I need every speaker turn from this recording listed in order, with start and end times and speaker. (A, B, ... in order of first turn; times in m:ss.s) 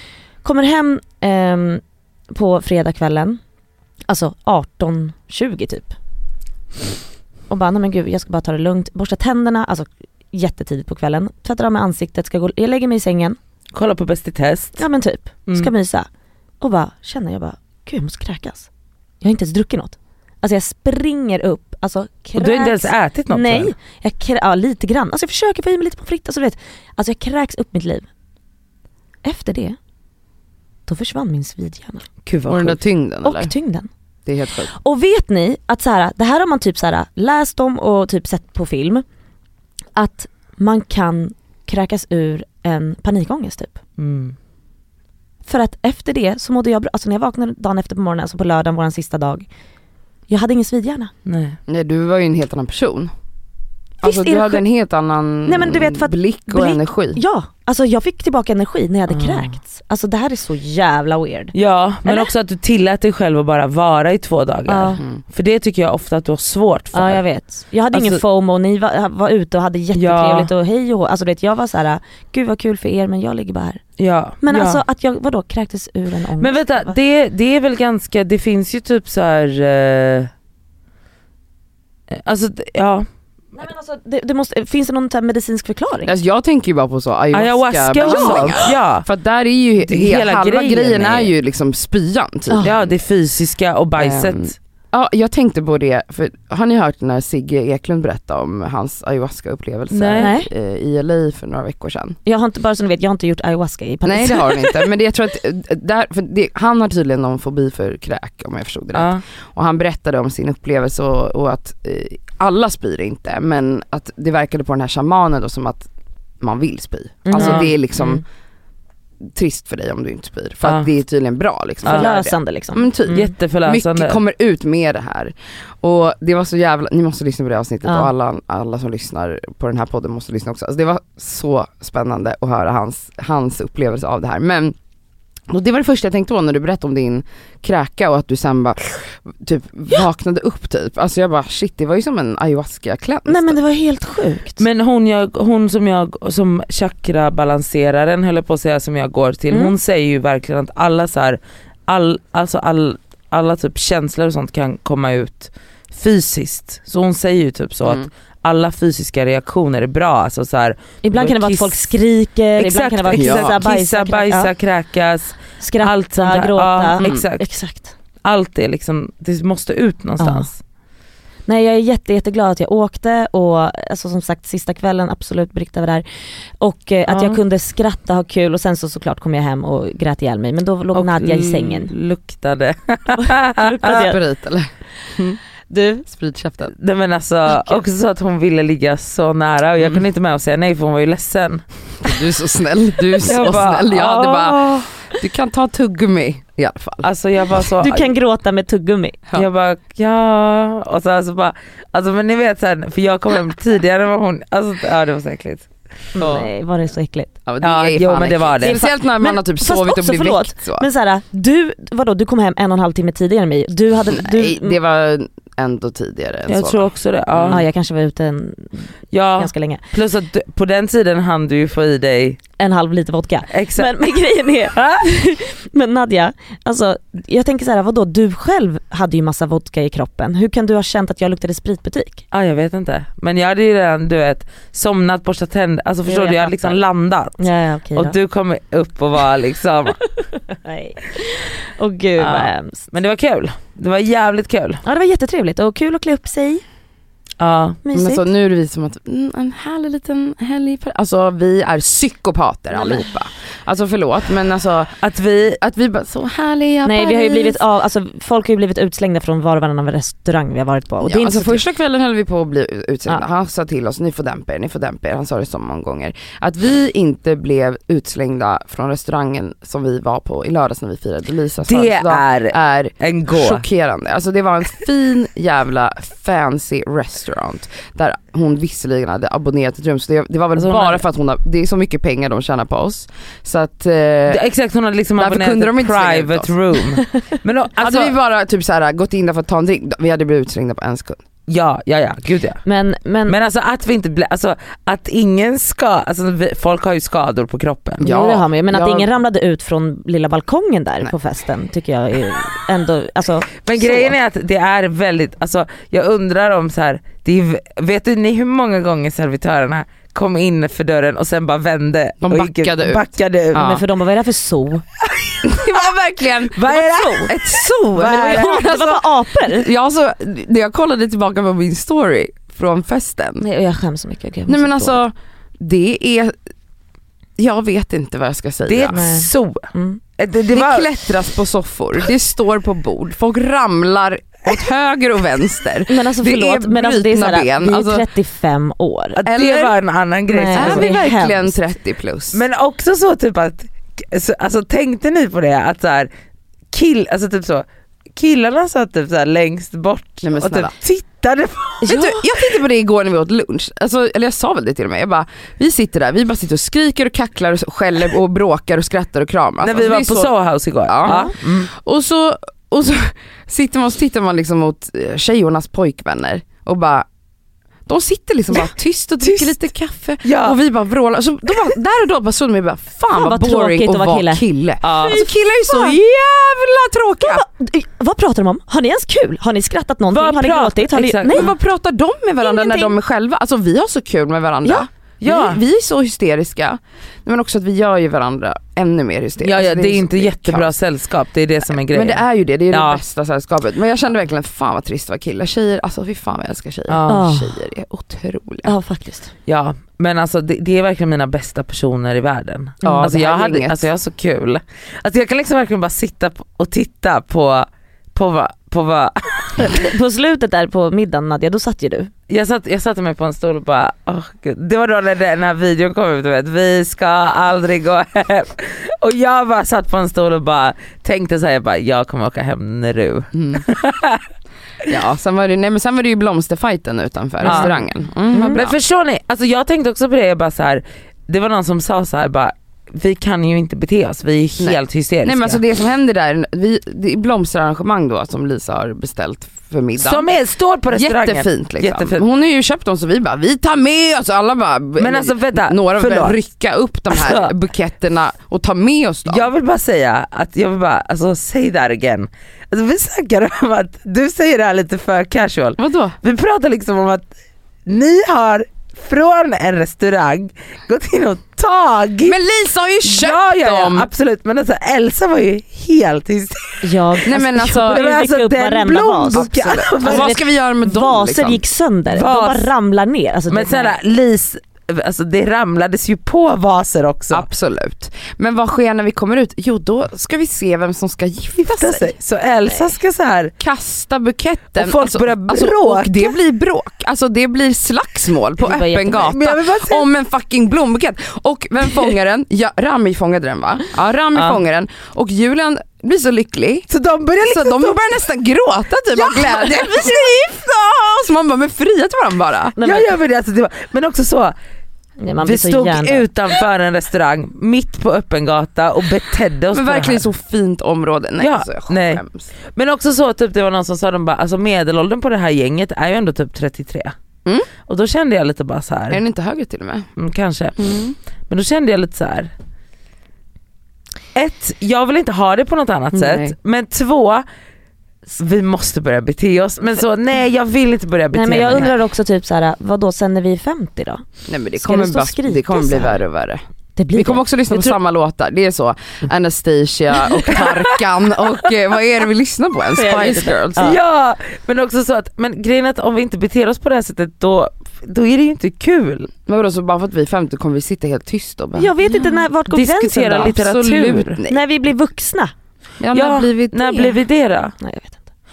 0:00.4-0:03.4 A
0:04.1-0:06.0 A
0:07.5-0:13.4 A
0:13.7-0:14.8 B
0:14.8-0:16.1 A
0:16.6-0:18.7 A
0:19.2-0:28.1 A
0:22.4-0:23.7 B
0:29.2-0:29.8 A
0:30.9-0:32.1 A
0:32.2-0:32.8 B
0:32.5-0:33.5 C
0:33.2-0:33.9 A
0:34.2-0:34.7 C
0:34.7-0:39.0 A
0:40.0-0:43.8 A
0:44.0-0:44.3 B
0:45.4-0:49.5 A
0:50.3-0:51.1 A
0:51.2-0:51.6 B
0:51.7-0:53.1 C
0:54.0-0:57.2 C
0:54.0-0:54.6 A
0:55.4-1:02.3 A
0:59.1-0:59.6 B
1:01.5-1:07.2 B
1:04.7-1:05.0 A
1:06.9-1:13.8 A
1:07.9-1:08.2 B
1:09.9-1:10.5 B
1:14.0-1:14.8 B
1:14.4-1:16.9 A
1:16.4-1:20.3 B
1:22.1-1:23.0 B
1:23.5-1:26.1 A
1:26.0-1:32.9 C
1:27.3-1:29.0 B
1:28.0-1:28.6 A
1:29.9-1:31.3 B
1:32.6-1:34.5 B
1:34.0-1:42.2 C
1:39.9-1:40.3 B
1:40.2-1:40.5 A
1:42.2-1:44.8 A
1:44.0-1:55.9 C
1:48.9-1:49.2 B
1:56.4-1:58.2 C
1:57.2-1:57.7 A
1:57.3-1:58.2 B
1:59.3-2:14.7 C
2:01.8-2:03.3 A
2:03.1-2:04.2 B
2:15.5-2:23.6 C
2:23.3-2:24.6 A
2:24.6-2:41.9 B
2:41.0-2:44.5 A
2:42.6-2:47.4 B
2:43.1-2:43.6 C
2:45.6-2:47.9 A
2:47.0-2:47.3 C
2:48.2-2:50.6 B
2:50.2-2:50.5 A
2:51.5-2:56.0 A
2:56.6-3:01.9 A
2:57.1-2:57.4 B
3:00.9-3:04.0 B
3:03.1-3:04.2 A
3:03.8-3:05.4 C
3:05.7-3:06.0 A
3:06.1-3:06.7 C
3:06.7-3:11.6 B
3:07.5-3:07.8 A
3:12.0-3:17.1 C
3:13.2-3:14.9 B
3:17.0-3:18.1 B
3:17.8-3:19.2 A
3:19.3-3:25.7 B
3:26.2-3:27.3 A
3:26.2-3:26.5 C
3:27.4-3:30.9 C
3:27.6-3:28.8 B
3:28.6-3:34.8 A
3:34.1-3:37.6 C
3:36.5-3:37.6 B
3:37.5-3:39.8 A
3:39.1-3:42.4 B
3:42.6-3:52.2 A
3:43.5-3:44.1 B
3:52.3-3:57.4 B
3:56.0-3:56.8 A
3:57.4-3:58.1 A
3:57.9-4:00.0 B
4:00.5-4:02.9 A
4:02.2-4:04.8 B
4:04.8-4:06.6 A
4:07.4-4:07.8 B
4:07.8-4:08.2 A
4:07.9-4:15.0 C
4:12.7-4:13.0 A
4:15.0-4:15.6 B
4:15.5-4:17.6 C
4:16.8-4:21.6 A
4:21.0-4:44.4 C
4:31.6-4:33.6 B
4:40.6-4:41.0 B
4:44.3-4:48.1 B
4:45.2-4:46.5 C
4:47.8-4:51.2 C
4:51.5-4:52.6 B
4:52.6-4:53.3 A
4:53.3-4:58.0 B
4:58.0-4:59.1 C
4:58.0-5:03.5 A
5:03.6-5:13.6 B
5:12.2-5:13.8 C
5:13.6-5:14.8 A
5:15.4-5:23.4 C
5:16.5-5:18.7 B
5:16.7-5:17.3 A
5:18.0-5:19.7 A
5:23.4-5:25.0 A
5:24.5-5:26.4 C
5:27.4-5:29.0 C
5:28.7-5:30.9 B
5:28.9-5:30.0 A
5:30.5-5:38.0 C
5:35.9-5:39.2 A
5:39.2-5:40.9 B
5:39.3-5:39.7 C
5:40.3-5:41.5 A
5:40.5-5:42.4 C
5:42.3-5:46.1 B
5:46.7-5:47.6 B
5:48.2-5:52.0 B
5:50.2-5:50.7 C
5:51.8-6:07.1 C
5:51.9-5:52.1 A
5:59.6-6:01.7 B
6:01.0-6:01.3 A
6:07.9-6:17.4 C
6:09.2-6:09.6 B
6:10.2-6:10.6 B
6:13.1-6:16.0 A
6:14.8-6:15.2 B
6:17.2-6:21.5 A
6:20.1-6:21.5 B
6:21.3-6:30.8 C
6:22.4-6:22.9 A
6:25.2-6:25.6 B
6:29.4-6:33.0 B
6:31.6-6:38.7 C
6:36.9-6:37.2 B
6:37.1-6:37.6 A
6:38.6-6:39.3 A
6:39.5-6:49.8 B
6:42.8-6:43.9 C
6:49.7-6:52.1 A
6:52.3-7:04.2 B
7:03.3-7:03.6 C
7:04.9-7:08.8 C
7:07.4-7:07.7 A
7:07.4-7:07.8 B
7:08.3-7:08.6 A
7:08.4-7:15.6 B
7:14.6-7:20.3 C
7:20.0-7:22.2 B
7:20.9-7:29.5 C
7:25.0-7:26.4 B
7:27.1-7:27.5 B
7:29.3-7:37.2 B
7:35.8-7:36.1 C
7:37.8-7:42.4 B
7:42.2-7:44.1 C
7:43.0-7:50.3 B
7:46.8-7:53.9 A
7:47.2-7:48.0 C
7:49.3-7:51.6 C
7:52.1-7:52.7 B
7:53.5-7:57.5 B
7:57.3-8:02.1 C
8:01.6-8:03.5 B
8:03.6-8:16.9 C
8:04.8-8:06.3 B
8:08.6-8:09.2 A
8:09.1-8:10.1 B
8:16.9-8:18.0 B
8:17.4-8:22.8 C
8:22.8-8:23.1 A
8:22.8-8:24.5 B
8:25.2-8:26.3 A
8:25.4-8:30.2 B
8:29.7-8:32.5 C
8:31.4-8:32.2 B
8:32.7-8:37.1 B
8:37.9-8:39.2 B
8:39.1-8:40.1 C
8:40.2-8:40.8 B
8:40.8-8:41.2 C
8:41.5-8:42.5 B
8:44.3-8:47.4 B
8:46.1-8:46.5 C
8:48.4-8:51.9 B
8:51.3-8:54.2 A
8:54.5-8:56.6 C
8:54.8-8:56.2 A
8:57.0-8:57.4 A
8:57.1-9:04.0 C
9:00.5-9:00.9 B
9:03.0-9:04.0 A
9:03.8-9:09.3 B
9:09.4-9:11.9 C
9:11.8-9:13.6 A
9:12.7-9:14.4 B
9:13.0-9:14.6 C
9:14.5-9:15.5 A
9:16.0-9:17.1 C
9:16.1-9:17.7 B
9:17.8-9:18.2 A